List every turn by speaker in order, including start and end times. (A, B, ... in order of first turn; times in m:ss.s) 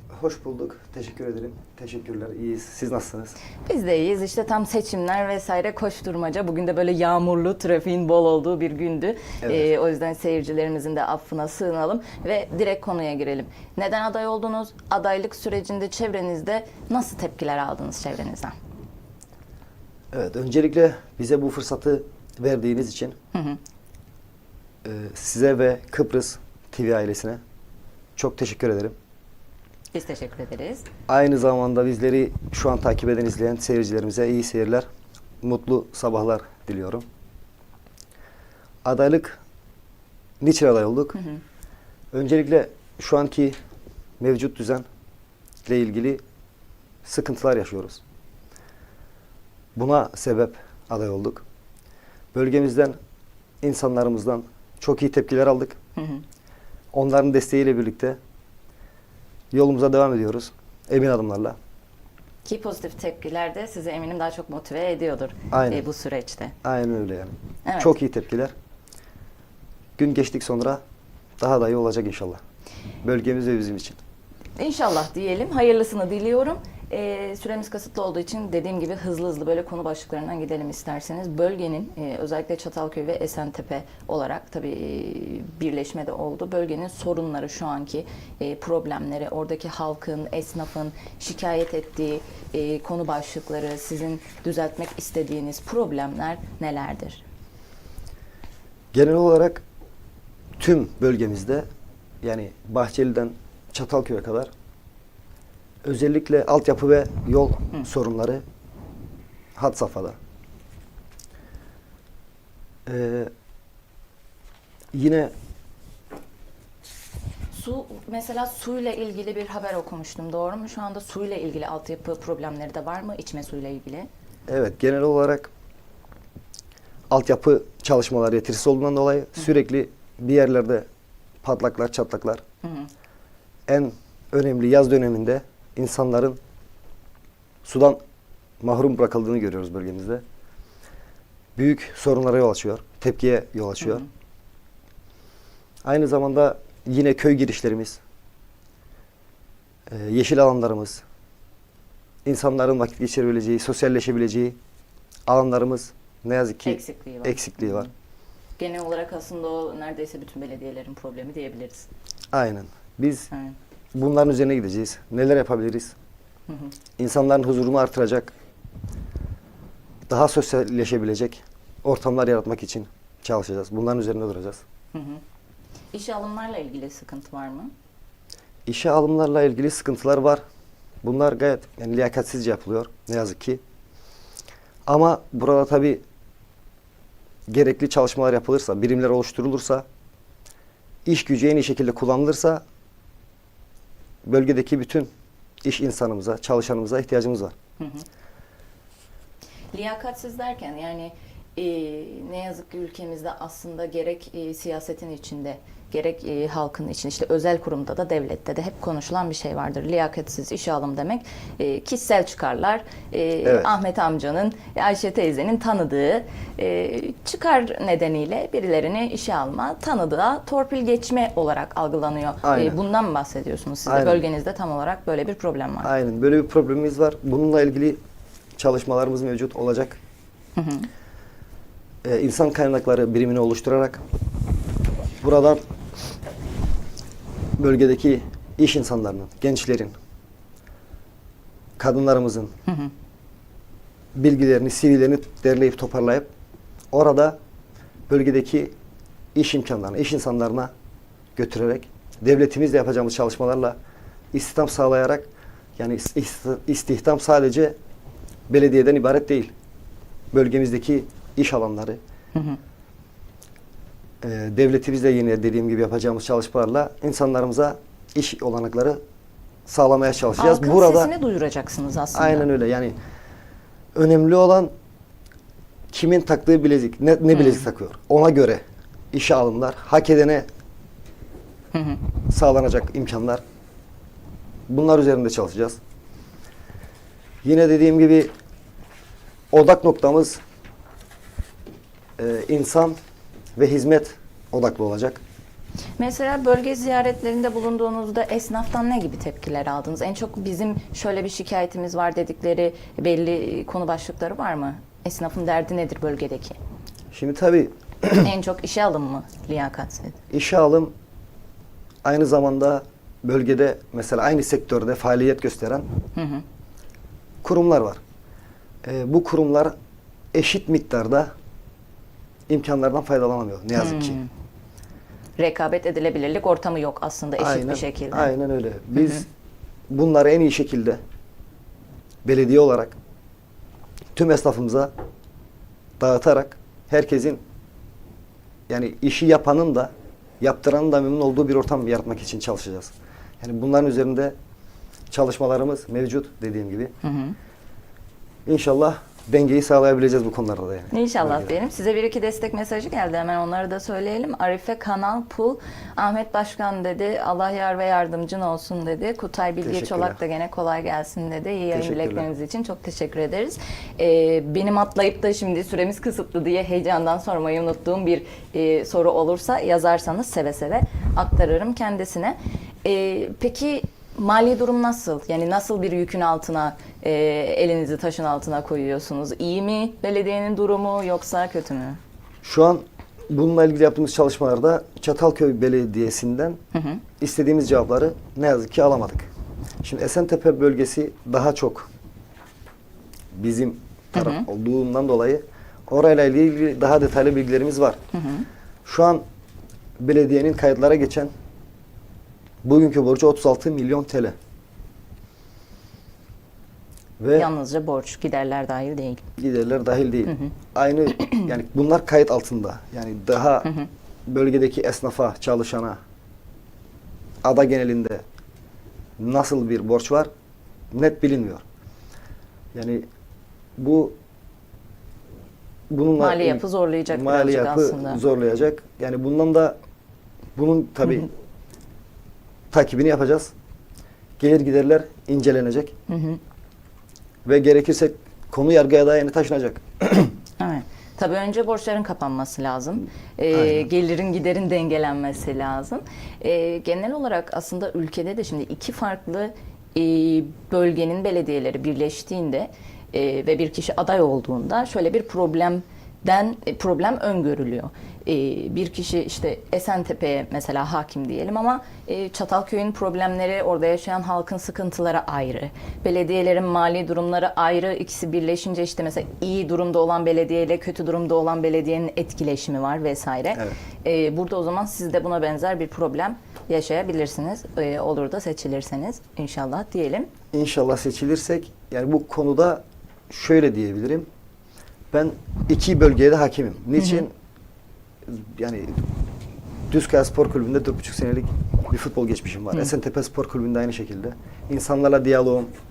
0:00.1-0:03.4 A
0:03.6-0:18.6 B
0:09.4-0:09.7 A
0:20.1-0:23.2 A
0:23.3-0:23.6 B
0:24.8-0:27.4 A
0:28.2-0:29.0 A
0:29.9-0:30.9 B
0:31.1-0:34.9 A
0:35.4-0:37.0 A
0:38.8-0:39.4 A
0:40.4-0:41.2 A
0:42.1-0:43.6 A
0:44.2-0:44.8 A
0:45.6-0:46.2 A
0:47.0-0:48.0 A
0:49.8-0:51.4 A
0:52.3-0:53.0 A
0:53.6-0:55.8 A
0:56.0-0:56.2 B
0:56.9-0:58.2 A
0:59.5-1:01.6 A
1:02.4-1:06.6 B
1:05.5-1:05.9 A
1:06.6-1:08.5 A
1:07.6-1:07.9 B
1:10.0-1:10.8 A
1:11.4-1:12.4 A
1:13.0-1:14.0 A
1:14.6-1:37.2 B
1:38.9-1:39.6 A
1:40.6-1:41.6 A
1:42.2-1:44.5 A
1:45.8-1:48.4 A
1:49.6-1:50.2 A
1:52.9-1:53.3 A
1:54.9-1:55.3 A
1:57.5-2:04.1 B
2:04.5-2:05.5 A
2:07.1-2:10.9 A
2:11.4-2:12.4 A
2:12.6-2:12.9 B
2:13.7-2:16.4 A
2:17.6-2:18.0 A
2:18.6-2:20.2 A
2:21.6-2:24.0 A
2:25.8-2:28.0 A
2:29.9-2:31.0 A
2:32.2-2:34.6 A
2:35.3-2:37.9 A
2:36.6-2:37.9 B
2:38.6-2:41.9 B
2:42.3-2:43.3 A
2:43.3-2:43.6 B
2:44.0-2:46.0 A
2:46.5-2:46.7 B
2:47.0-2:48.3 A
2:50.1-2:54.6 A
2:54.9-2:55.2 B
2:55.9-2:57.7 B
2:58.7-3:00.4 A
3:01.0-3:03.6 A
3:04.9-3:06.0 A
3:07.5-3:09.9 A
3:11.0-3:12.6 A
3:14.2-3:15.1 A
3:15.6-3:17.6 A
3:17.8-3:18.0 B
3:19.7-3:45.9 B
3:33.4-3:33.8 A
3:42.4-3:42.8 A
3:43.9-3:44.2 A
3:45.8-3:48.0 A
3:48.6-3:50.0 A
3:50.6-3:50.9 B
3:52.0-3:54.0 A
3:55.2-3:55.6 A
3:57.6-3:59.9 A
4:01.8-4:02.5 A
4:02.7-4:02.9 B
4:04.2-4:06.3 A
4:06.9-4:07.4 A
4:08.1-4:08.7 A
4:09.4-4:10.7 A
4:11.4-4:13.8 A
4:14.3-4:15.2 A
4:15.8-4:17.8 A
4:18.5-4:19.5 A
4:20.3-4:22.0 A
4:22.3-4:22.6 B
4:24.2-4:29.0 A
4:29.7-4:31.1 A
4:30.4-4:32.5 B
4:32.1-4:33.0 A
4:34.0-4:34.7 A
4:35.9-4:40.5 A
4:37.3-4:37.7 B
4:41.7-4:42.0 B
4:42.3-4:43.4 A
4:44.7-4:45.8 A
4:47.4-4:48.3 A
4:49.5-4:50.4 A
4:52.2-4:53.0 A
4:53.6-4:55.2 A
4:56.0-5:06.6 B
5:07.1-5:08.3 A
5:08.2-5:10.2 B
5:10.3-5:10.9 A
5:12.0-5:15.9 A
5:16.2-5:16.4 B
5:17.4-5:18.0 A
5:18.8-5:19.7 A
5:20.3-5:21.3 A
5:22.5-5:24.2 A
5:23.8-5:24.3 B
5:25.4-5:28.3 B
5:27.4-5:29.3 A
5:29.0-5:29.2 B
5:29.9-5:31.0 A
5:32.2-5:33.0 A
5:34.2-5:34.9 A
5:36.0-5:37.4 A
5:38.7-5:44.4 A
5:45.1-5:46.9 A
5:47.0-5:47.4 B
5:48.5-5:51.5 A
5:50.9-6:22.0 B
5:59.6-6:00.2 A
6:01.7-6:02.3 A
6:22.4-6:26.6 A
6:26.7-6:27.0 B
6:27.2-6:29.3 A
6:29.8-6:31.9 A
6:33.3-6:38.0 A
6:34.1-6:34.5 B
6:38.1-6:38.5 B
6:38.8-6:39.2 A
6:40.0-6:41.3 A
6:42.6-6:44.4 A
6:47.2-6:47.5 A
6:47.3-6:49.2 B
6:49.4-6:53.7 A
6:50.3-6:50.5 B
6:54.3-6:56.0 A
6:57.4-6:58.2 A
6:59.2-7:00.3 A
7:00.9-7:01.6 A
7:02.7-7:03.0 A
7:03.8-7:04.2 A
7:05.9-7:09.8 A
7:06.2-7:08.2 B
7:10.6-7:11.3 A
7:12.7-7:13.5 A
7:14.4-7:15.9 A
7:16.1-7:16.4 B
7:17.4-7:20.3 A
7:20.6-8:00.3 B
7:23.5-7:23.9 A
8:00.5-8:04.3 A
8:05.1-8:07.3 A
8:07.0-8:07.2 B
8:08.3-8:09.0 A
8:09.9-8:15.7 A